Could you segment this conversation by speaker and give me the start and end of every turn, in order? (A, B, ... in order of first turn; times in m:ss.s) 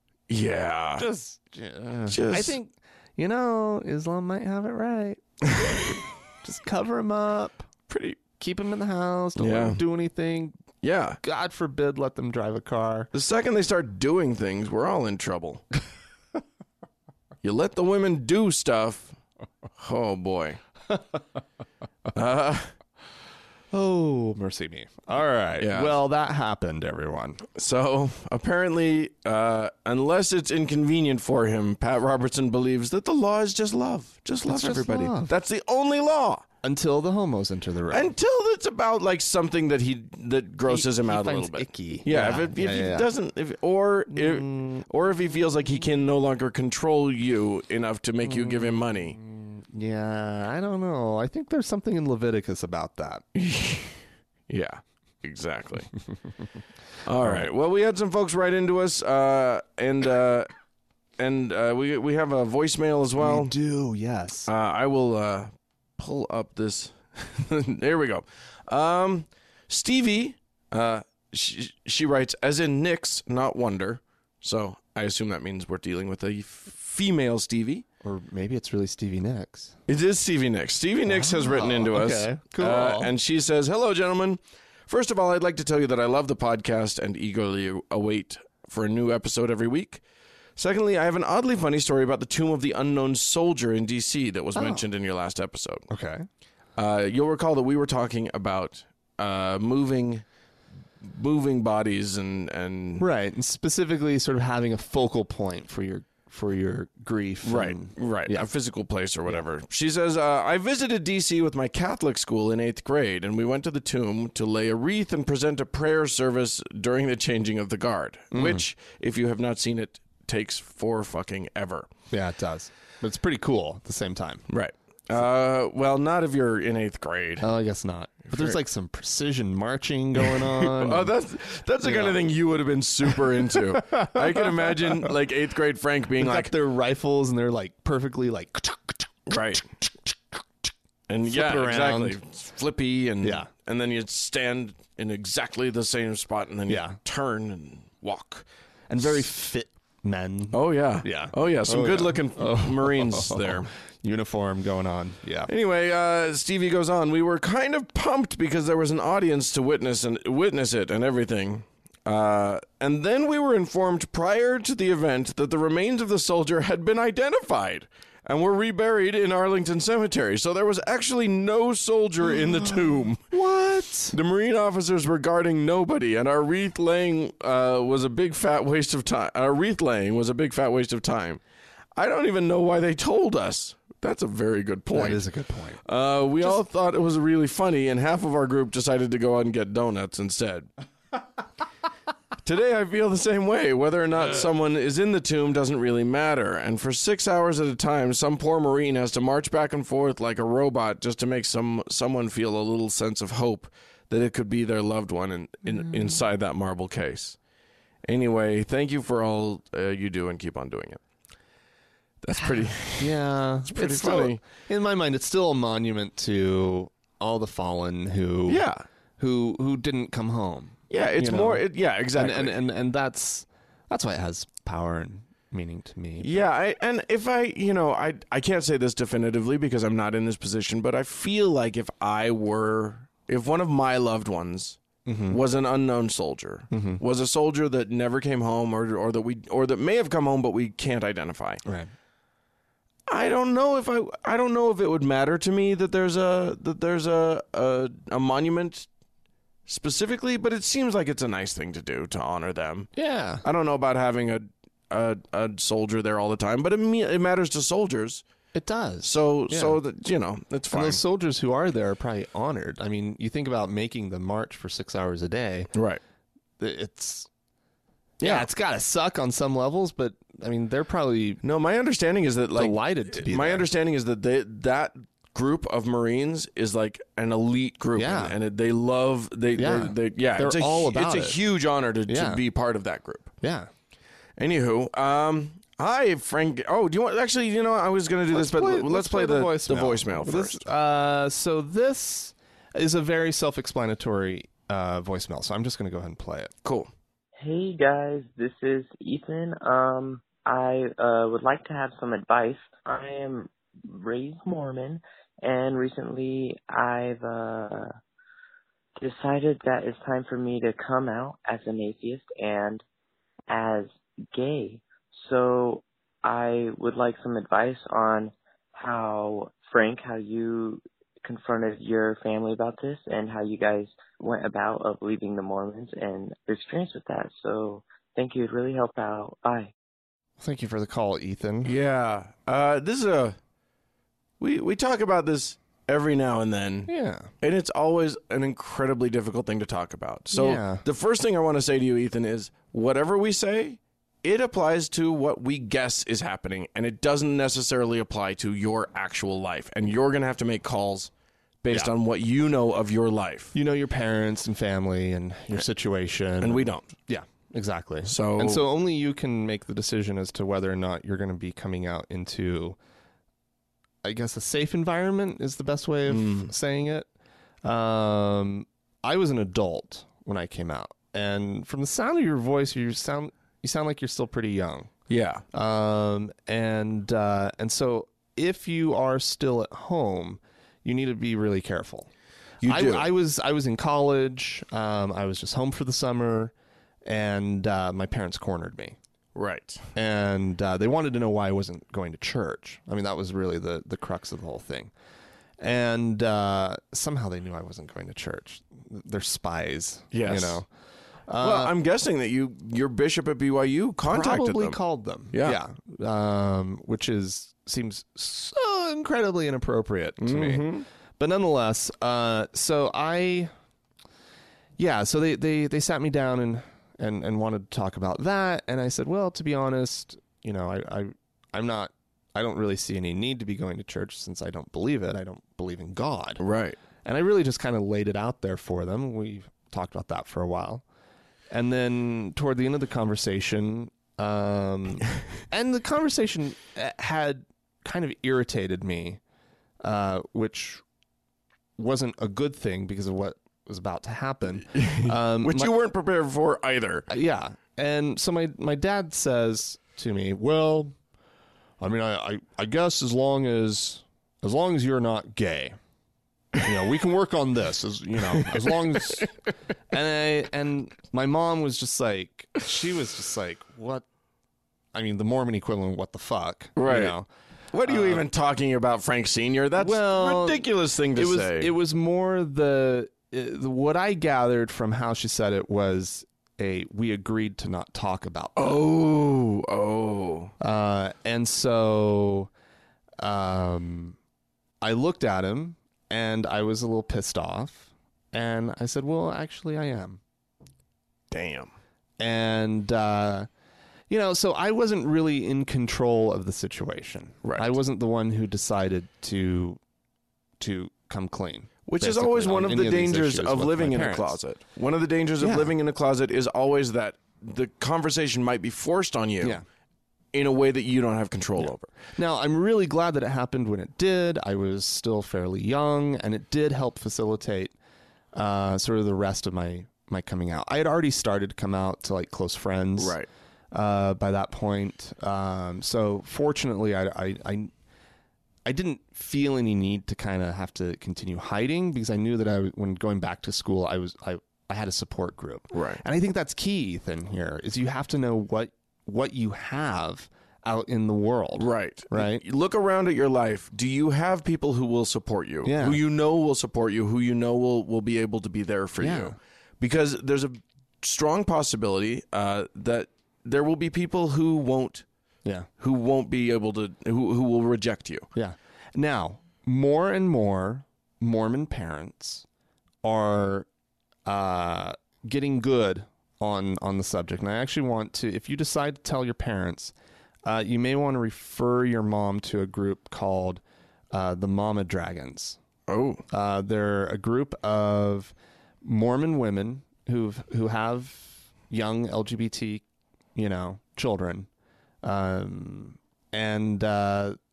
0:00.3-0:01.1 A
0:01.0-0:05.8 B
0:02.1-0:02.6 A
0:06.4-0:07.7 B
0:07.9-0:08.2 A
0:08.4-0:10.6 B
0:09.4-0:09.8 A
0:10.8-0:11.2 A
0:11.2-0:13.1 B
0:13.1-0:15.6 A
0:17.4-0:19.2 A
0:19.8-0:20.6 A
0:22.1-0:22.7 A
0:23.7-0:27.4 B
0:25.6-0:26.0 A
0:27.5-0:36.4 A
0:34.5-0:35.3 B
0:36.6-0:38.1 B
0:37.9-0:49.2 A
0:40.7-0:43.1 B
0:44.1-0:44.8 B
0:48.2-0:53.2 B
0:53.4-0:55.9 A
0:57.0-1:00.5 A
1:01.2-1:03.5 A
1:03.2-1:04.5 B
1:04.5-1:17.8 A
1:18.0-1:19.8 B
1:19.9-1:30.0 A
1:21.1-1:23.1 B
1:30.6-1:35.9 A
1:34.6-1:34.8 B
1:35.9-1:36.3 B
1:36.8-1:40.2 A
1:41.0-1:43.0 A
1:43.0-1:48.5 B
1:47.4-2:01.9 A
1:58.3-1:58.6 B
2:02.1-2:04.4 B
2:04.5-2:07.5 A
2:07.4-2:11.1 B
2:08.3-2:08.6 A
2:10.2-2:16.5 A
2:11.8-2:12.2 B
2:13.7-2:15.1 B
2:16.2-2:20.2 B
2:19.3-2:19.6 A
2:21.1-2:28.5 A
2:21.2-2:22.2 B
2:23.2-2:23.5 B
2:26.7-2:27.0 B
2:28.9-2:35.5 B
2:30.5-2:33.7 A
2:35.5-2:53.2 A
2:53.3-2:54.2 B
2:54.1-3:01.4 A
3:02.0-3:05.2 A
3:04.9-3:05.8 B
3:05.8-3:10.7 A
3:12.4-3:27.4 A
3:28.0-3:31.0 A
3:32.2-3:33.2 A
3:33.0-3:38.6 B
3:33.7-3:34.4 A
3:38.5-3:38.8 A
3:39.2-3:46.4 B
3:40.9-3:42.6 A
3:46.2-4:01.6 A
3:55.1-3:55.4 B
3:56.7-3:57.0 B
4:01.6-4:01.9 B
4:03.1-4:08.9 A
4:09.7-4:12.9 A
4:13.0-4:13.4 B
4:13.4-4:18.2 A
4:18.6-4:19.8 B
4:19.0-4:21.0 A
4:20.7-4:25.7 B
4:25.7-4:26.0 A
4:26.6-4:27.3 B
4:28.2-4:28.5 A
4:28.2-4:31.4 B
4:31.4-4:43.3 A
4:32.6-4:33.7 B
4:38.0-4:38.4 B
4:39.6-4:41.4 B
4:42.1-4:42.4 B
4:43.4-4:43.7 B
4:44.4-4:50.6 A
4:48.3-4:56.5 B
4:56.6-4:56.9 A
4:57.4-5:08.0 C
5:09.0-5:12.8 C
5:13.5-5:29.7 C
5:30.4-5:31.7 B
5:31.6-5:33.4 A
5:34.4-5:36.9 A
5:36.9-5:37.3 B
5:37.4-5:51.1 A
5:40.3-5:40.8 B
5:51.6-5:53.6 A
5:53.6-6:02.8 B
5:56.4-5:56.9 A
5:58.1-5:58.6 A
6:04.0-6:07.1 B
6:06.1-6:06.5 A
6:07.6-6:14.9 B
6:15.1-6:15.4 A
6:15.5-6:22.1 B
6:22.6-6:23.1 A
6:22.6-6:26.5 B
6:27.0-6:29.0 B
6:29.4-6:29.8 A
6:30.0-6:34.9 B
6:35.6-6:40.7 B
6:40.1-6:40.6 A
6:41.3-6:41.8 B
6:41.4-6:44.8 A
6:44.1-6:53.5 B
6:45.3-6:45.6 A
6:50.2-6:50.9 A
6:54.8-7:06.4 B
7:06.4-7:06.8 A
7:07.0-7:10.8 B
7:11.5-7:19.2 B
7:19.8-7:20.8 B
7:21.8-7:25.7 B
7:24.7-7:27.1 A
7:27.1-7:31.0 B
7:31.8-7:35.8 B
7:36.6-7:39.3 B
7:38.3-7:39.3 A
7:39.9-7:44.0 B
7:44.9-7:47.3 B
7:46.8-7:47.2 A
7:47.7-7:51.7 A
7:47.8-7:48.2 B
7:49.8-7:58.8 B
7:58.6-8:00.5 A
8:00.6-8:02.5 B
8:03.2-8:04.2 B
8:04.8-8:10.2 B
8:11.3-8:11.7 A
8:12.2-8:13.5 B
8:14.1-8:19.8 B
8:17.4-8:17.7 A
8:20.6-8:24.4 B
8:21.9-8:29.6 A
8:25.4-8:25.7 B
8:30.3-8:31.9 A
8:31.6-8:37.7 B
8:38.3-8:43.2 B
8:43.0-8:43.3 A
8:43.7-8:47.7 B
8:48.6-9:02.4 B
8:55.7-8:56.0 A
9:01.6-9:15.0 A
9:05.6-9:06.0 B
9:09.0-9:09.4 B
9:15.8-9:18.3 A
9:18.4-9:22.4 B
9:23.0-9:23.7 B
9:24.3-9:29.9 B
9:30.4-9:33.6 B
9:34.1-9:35.6 B
9:35.9-9:36.2 A
9:36.3-9:42.8 B
9:43.4-9:44.5 B
9:45.0-9:47.4 B